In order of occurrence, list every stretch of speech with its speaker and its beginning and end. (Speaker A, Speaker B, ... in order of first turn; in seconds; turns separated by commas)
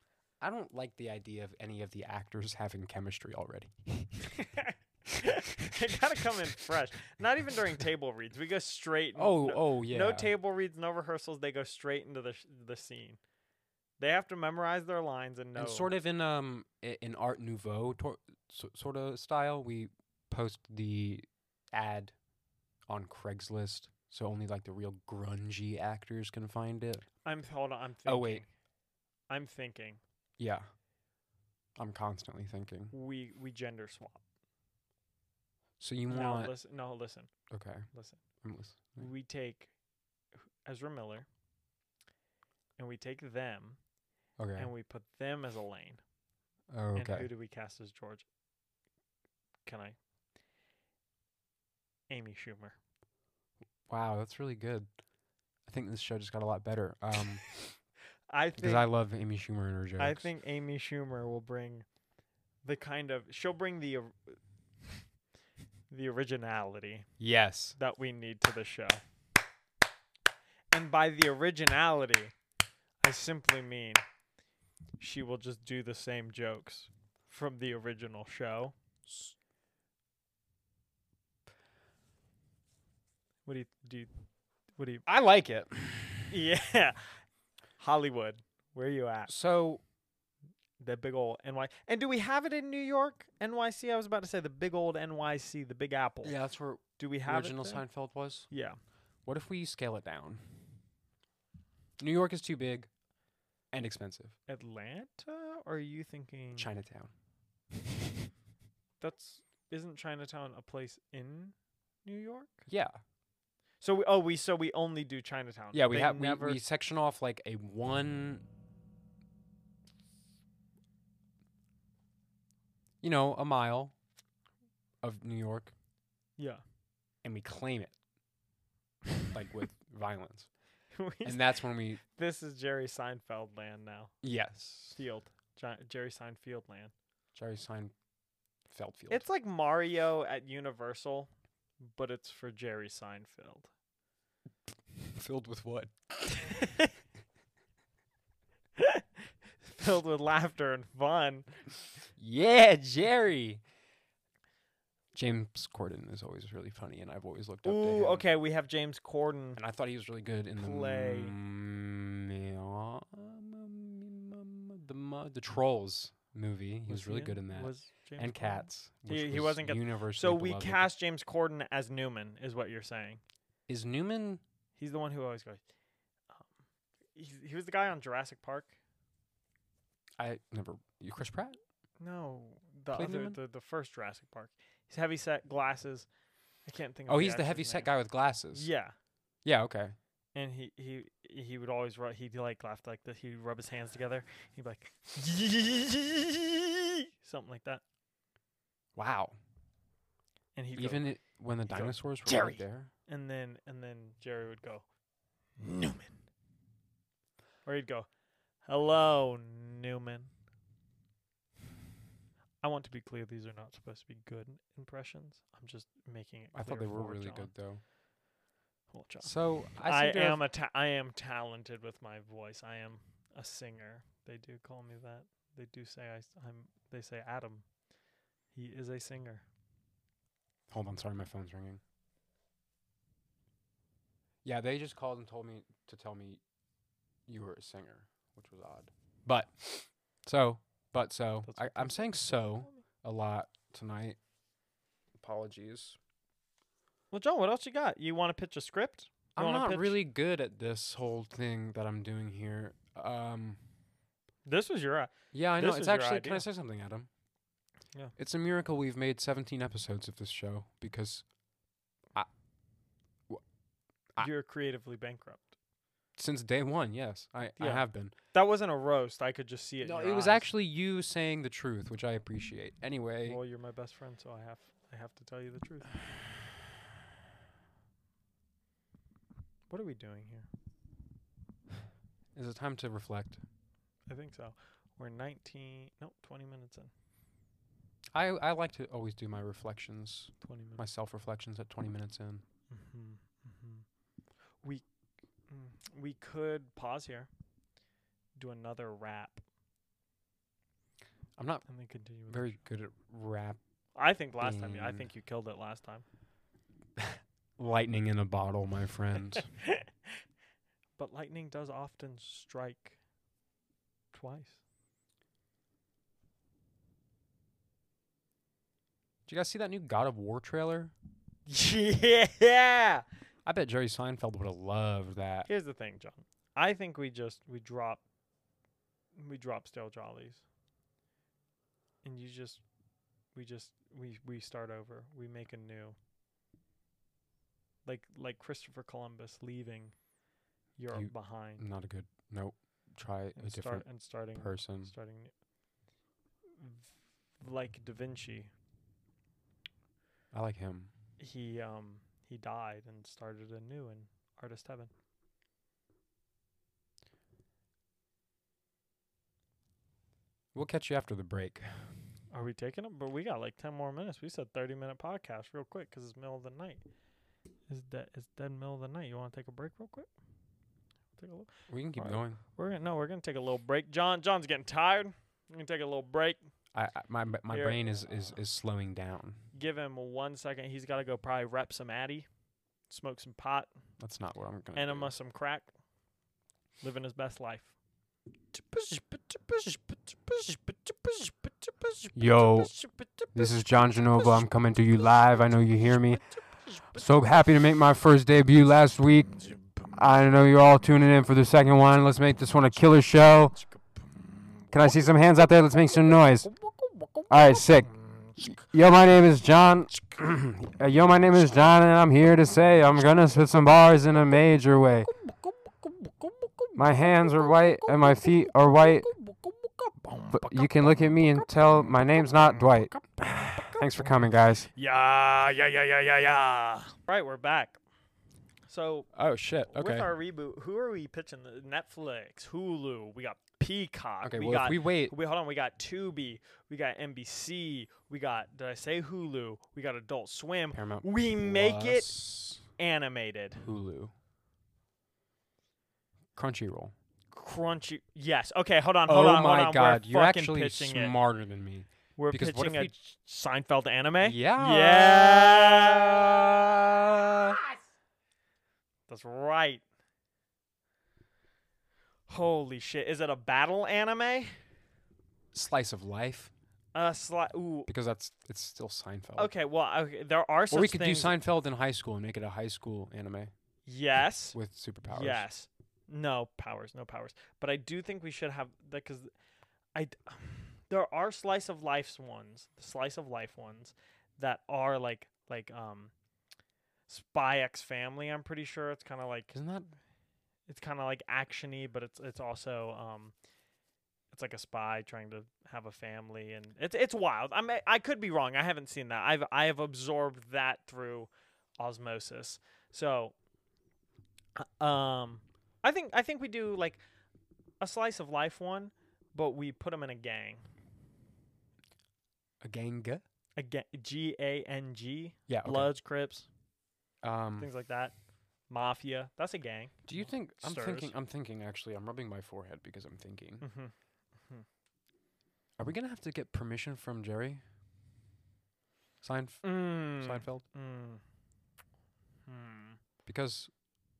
Speaker A: 0.4-4.3, Speaker B: 4.3-13.2, Speaker A: 9.2-10.3, Speaker B: 14.0-15.9, Speaker A: 15.6-22.1, Speaker A: 22.9-27.1, Speaker B: 27.2-28.5, Speaker A: 28.1-28.4, Speaker B: 29.3-30.0, Speaker A: 30.4-30.7, Speaker A: 31.8-32.9, Speaker B: 32.9-34.2, Speaker A: 35.8-36.5, Speaker B: 36.1-37.3, Speaker A: 37.5-37.9, Speaker B: 37.9-38.2, Speaker A: 38.4-39.1, Speaker B: 38.9-39.7, Speaker B: 40.6-41.3, Speaker B: 42.8-43.8, Speaker A: 44.4-44.7, Speaker B: 44.6-46.0, Speaker A: 46.7-47.3, Speaker B: 46.9-48.2, Speaker B: 49.6-50.0, Speaker B: 52.1-52.8, Speaker A: 53.9-54.9, Speaker A: 55.7-57.8, Speaker B: 58.3-58.9, Speaker A: 58.6-60.3, Speaker B: 60.0-61.9, Speaker B: 62.6-64.4, Speaker B: 65.9-67.1, Speaker A: 67.2-67.8, Speaker B: 67.8-69.0, Speaker B: 70.7-72.3, Speaker B: 73.0-74.0, Speaker B: 75.0-78.7, Speaker A: 79.1-79.3, Speaker B: 83.5-84.1, Speaker B: 84.7-85.1, Speaker A: 85.1-86.3, Speaker B: 86.3-87.2, Speaker B: 87.8-89.3, Speaker A: 89.3-89.8, Speaker B: 90.8-96.4, Speaker A: 96.2-98.5, Speaker B: 97.0-97.8, Speaker B: 98.5-98.8, Speaker A: 99.2-100.6, Speaker A: 102.0-102.9, Speaker A: 103.7-104.3, Speaker B: 104.5-106.7, Speaker A: 106.6-107.1, Speaker B: 109.0-112.7, Speaker A: 112.7-113.0, Speaker B: 113.8-116.6, Speaker A: 115.7-118.4, Speaker A: 123.0-123.9, Speaker A: 125.0-125.7, Speaker B: 126.4-126.6, Speaker A: 127.2-127.9, Speaker A: 129.3-130.5, Speaker B: 130.9-134.1, Speaker A: 131.2-132.0, Speaker A: 134.2-134.9, Speaker B: 134.9-136.9, Speaker A: 137.3-137.9, Speaker A: 138.7-139.2, Speaker B: 139.1-141.3, Speaker B: 141.8-143.7, Speaker A: 145.0-146.6, Speaker B: 146.6-146.9, Speaker B: 148.8-149.1, Speaker B: 149.6-151.5, Speaker A: 152.2-153.6, Speaker A: 155.1-158.2, Speaker B: 157.7-159.6, Speaker A: 159.6-170.9, Speaker B: 160.6-161.4, Speaker B: 166.9-173.2, Speaker A: 173.7-174.4, Speaker B: 174.8-175.6, Speaker B: 177.2-178.8, Speaker A: 180.2-181.6, Speaker B: 182.0-186.1, Speaker A: 182.9-183.4, Speaker B: 186.7-187.9, Speaker A: 187.1-188.7, Speaker B: 188.5-188.9, Speaker A: 189.4-190.0, Speaker B: 190.3-197.8, Speaker A: 198.9-199.4, Speaker B: 200.6-201.1, Speaker A: 200.8-202.9, Speaker B: 201.7-204.8, Speaker B: 205.6-206.2, Speaker B: 207.7-208.1, Speaker B: 208.7-210.3, Speaker B: 212.6-217.5, Speaker A: 216.5-217.8, Speaker B: 218.9-227.7, Speaker A: 219.2-220.4, Speaker B: 228.5-229.4, Speaker A: 230.7-231.8, Speaker A: 234.4-236.4, Speaker A: 237.3-244.2, Speaker B: 241.5-242.8, Speaker A: 245.2-246.0, Speaker B: 247.1-250.0, Speaker A: 249.4-253.6, Speaker B: 254.5-256.4, Speaker A: 255.3-257.1, Speaker A: 258.2-261.3, Speaker B: 264.2-265.5, Speaker A: 266.2-268.1, Speaker B: 267.6-270.5, Speaker A: 269.8-273.4, Speaker B: 273.2-275.9, Speaker B: 279.7-280.5, Speaker A: 282.4-283.4, Speaker B: 284.1-286.9, Speaker A: 288.1-292.4, Speaker B: 290.4-290.8, Speaker B: 292.7-293.9, Speaker B: 295.5-297.3, Speaker B: 298.4-299.4, Speaker A: 301.4-301.7, Speaker B: 301.7-302.6, Speaker A: 302.3-303.6, Speaker B: 304.0-306.1, Speaker A: 304.4-305.1, Speaker A: 307.0-309.5, Speaker B: 309.4-309.8, Speaker B: 311.0-313.0, Speaker B: 314.1-314.6, Speaker A: 319.3-320.9, Speaker B: 321.5-323.1, Speaker A: 323.5-325.5, Speaker B: 325.5-328.0, Speaker B: 329.2-330.4, Speaker B: 332.0-332.6, Speaker B: 333.3-336.0, Speaker B: 337.9-339.9, Speaker B: 340.8-341.6, Speaker A: 340.9-344.9, Speaker B: 343.4-345.3, Speaker B: 346.6-348.5, Speaker A: 350.3-350.9, Speaker B: 351.2-354.9, Speaker A: 360.5-362.0, Speaker B: 362.3-366.8, Speaker B: 367.7-370.1, Speaker B: 371.2-376.4, Speaker A: 371.7-372.4, Speaker A: 376.7-379.4, Speaker B: 377.5-378.1, Speaker B: 379.5-382.3, Speaker B: 382.9-383.7, Speaker A: 384.0-385.1, Speaker B: 384.7-385.7, Speaker B: 386.8-387.7, Speaker B: 388.5-393.6, Speaker A: 392.1-392.7, Speaker A: 393.3-396.2, Speaker B: 396.7-396.9, Speaker A: 396.9-399.4, Speaker A: 399.9-403.6, Speaker A: 404.7-406.5, Speaker A: 407.3-415.1, Speaker A: 416.8-419.1, Speaker B: 419.3-420.7, Speaker A: 420.3-424.7, Speaker B: 424.7-427.8, Speaker B: 428.7-429.1, Speaker A: 429.1-430.1, Speaker B: 429.7-442.2, Speaker A: 434.2-435.1, Speaker A: 440.7-442.6, Speaker B: 442.7-443.6, Speaker A: 443.6-444.1, Speaker A: 446.4-446.9, Speaker B: 447.3-451.2, Speaker A: 449.1-452.9, Speaker B: 452.2-456.3, Speaker A: 454.2-457.6, Speaker B: 459.1-459.8, Speaker B: 462.3-464.6, Speaker A: 465.5-466.5, Speaker B: 466.9-467.9, Speaker A: 467.9-469.5, Speaker B: 469.4-471.4, Speaker A: 470.7-473.5, Speaker B: 473.9-479.3, Speaker A: 474.5-475.5, Speaker B: 479.9-486.1, Speaker B: 487.1-489.6, Speaker A: 489.5-489.9, Speaker B: 490.7-493.3, Speaker B: 494.3-503.3, Speaker B: 504.6-507.0, Speaker B: 507.8-510.6, Speaker A: 512.6-513.2, Speaker B: 513.6-516.5, Speaker A: 515.5-515.9, Speaker A: 517.2-517.7, Speaker B: 517.6-518.1, Speaker B: 518.7-521.1, Speaker A: 520.0-523.7, Speaker B: 523.6-523.9, Speaker A: 525.8-527.6, Speaker A: 529.2-530.6, Speaker B: 529.6-531.2, Speaker B: 532.5-533.0, Speaker A: 533.3-533.7